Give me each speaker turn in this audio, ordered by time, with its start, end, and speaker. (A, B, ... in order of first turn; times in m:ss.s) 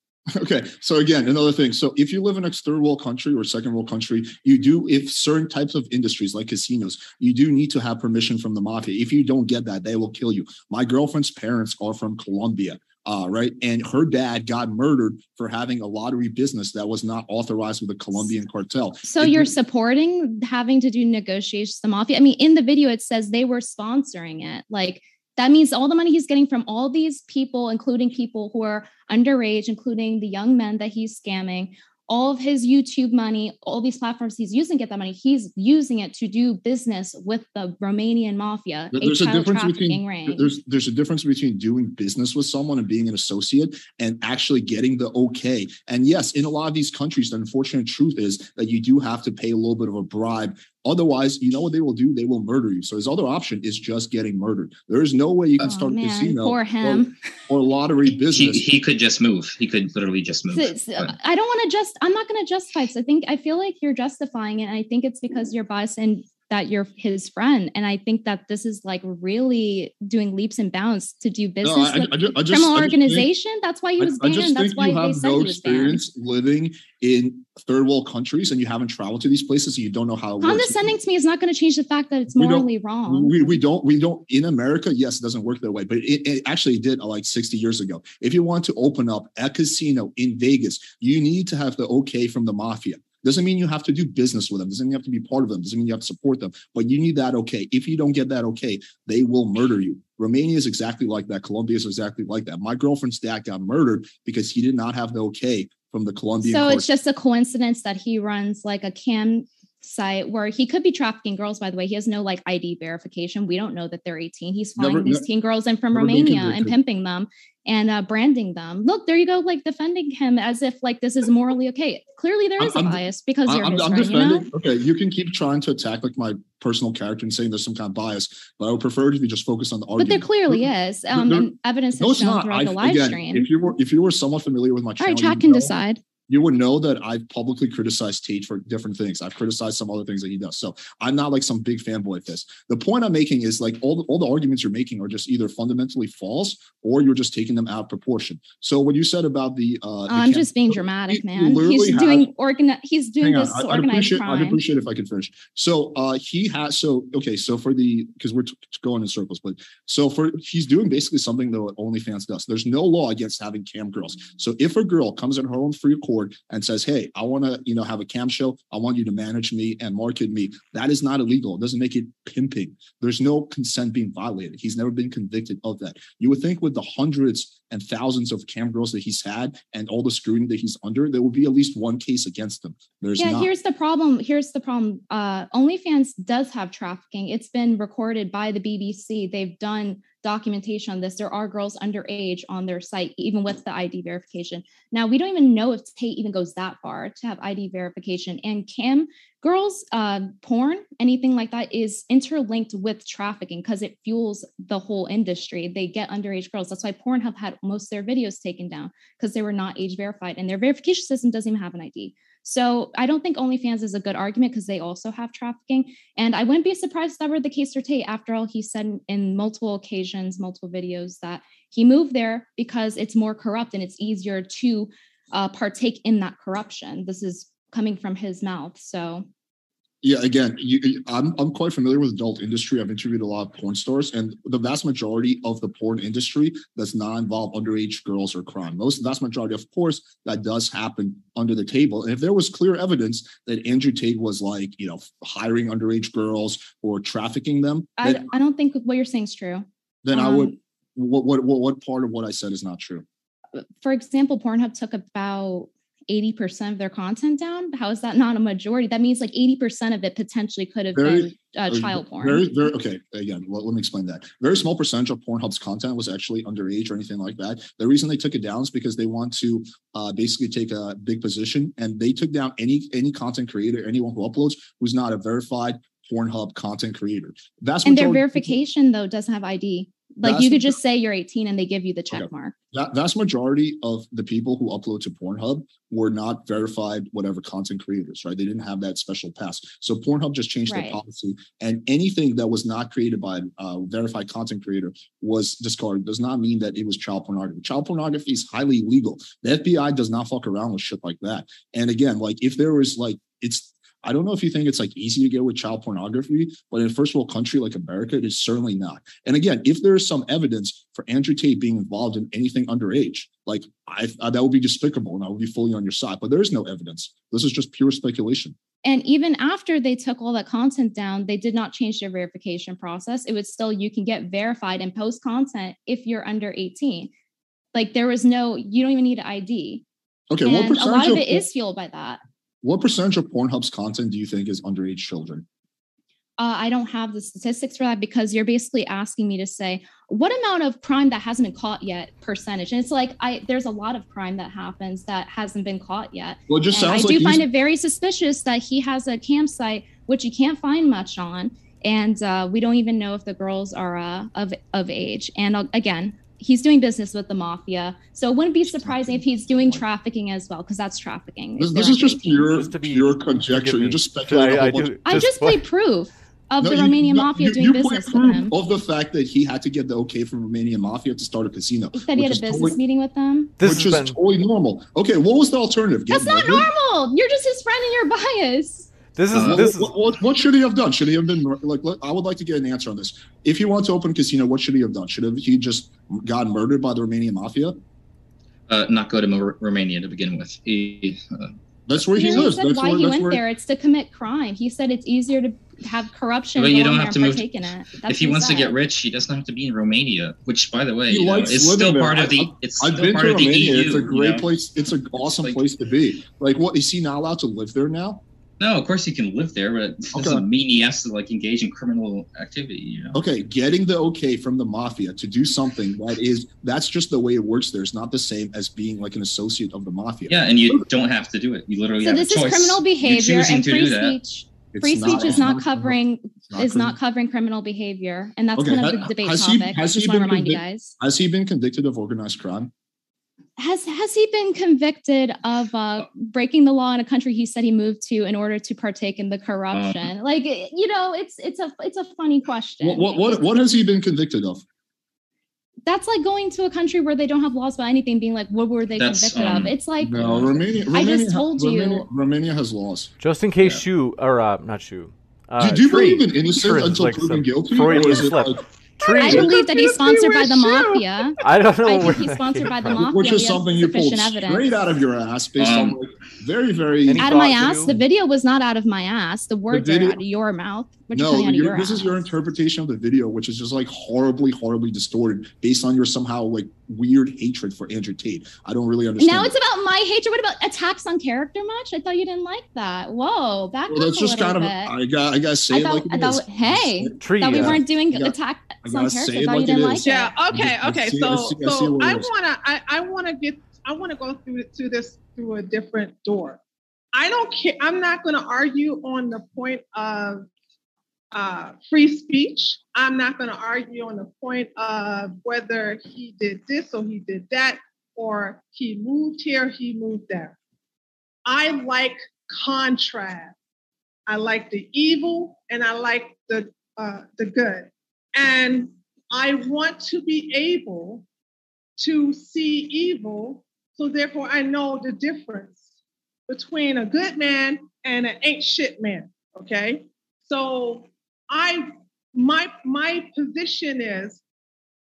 0:00.3-0:19.5 A
0:19.0-0:40.5 B
0:38.9-0:58.6 A
0:55.6-0:57.2 B
0:58.2-1:01.1 C
1:00.5-1:16.0 B
1:11.6-1:13.3 A
1:14.0-1:20.9 A
1:20.4-1:23.6 B
1:22.3-1:46.9 A
1:46.4-2:04.5 B
1:54.8-1:55.2 A
1:55.9-1:56.8 A
2:02.6-2:15.7 A
2:10.0-2:13.5 B
2:15.0-2:16.0 B
2:16.3-2:32.3 A
2:30.1-2:34.6 B
2:33.2-3:03.5 A
3:03.2-3:49.3 B
3:50.0-4:08.4 A
4:08.0-4:10.6 B
4:10.0-4:13.0 A
4:13.6-4:22.5 B
4:20.9-4:38.6 A
4:37.8-4:42.5 B
4:40.2-4:40.8 A
4:42.1-5:18.6 A
4:50.7-4:51.0 B
5:18.8-5:27.1 B
5:27.7-5:29.8 B
5:30.3-5:31.4 A
5:30.4-5:32.2 B
5:32.6-5:35.4 A
5:36.4-6:02.5 B
5:46.5-5:47.5 A
5:58.7-5:59.2 A
6:01.6-6:05.3 A
6:02.4-6:05.7 D
6:05.1-6:08.6 B
6:06.6-6:12.8 A
6:11.9-6:13.6 B
6:13.6-6:14.2 D
6:13.6-6:16.7 A
6:16.1-6:18.9 B
6:19.2-6:20.0 D
6:19.3-6:19.7 C
6:19.3-6:27.8 A
6:28.7-6:31.5 C
6:31.9-6:33.4 A
6:32.2-6:38.7 B
6:36.6-6:44.4 C
6:41.1-6:48.2 A
6:45.4-6:45.6 C
6:48.6-6:53.2 C
6:50.1-6:50.4 A
6:53.1-7:00.9 A
7:00.3-7:04.2 C
7:02.0-7:10.9 B
7:04.7-7:06.0 A
7:06.5-7:07.0 A
7:08.6-7:12.7 A
7:13.6-7:23.2 B
7:19.7-7:20.1 C
7:22.8-7:24.6 A
7:25.9-7:32.1 B
7:29.0-7:29.7 C
7:30.0-7:33.1 A
7:33.2-7:39.5 D
7:35.6-7:38.6 A
7:39.0-7:41.3 E
7:39.2-7:44.8 B
7:41.4-7:43.1 D
7:42.8-7:47.8 A
7:45.6-7:46.0 C
7:47.1-7:48.0 D
7:47.2-7:52.2 B
7:49.7-7:50.2 A
7:51.1-7:59.6 A
7:59.2-8:05.0 B
8:03.9-8:12.3 A
8:05.7-8:10.3 B
8:07.2-8:07.9 D
8:10.0-8:16.6 E
8:17.1-8:20.5 E
8:21.3-8:30.6 E
8:31.4-8:33.6 E
8:34.3-8:41.2 E
8:42.0-8:45.8 E
8:46.5-8:54.4 E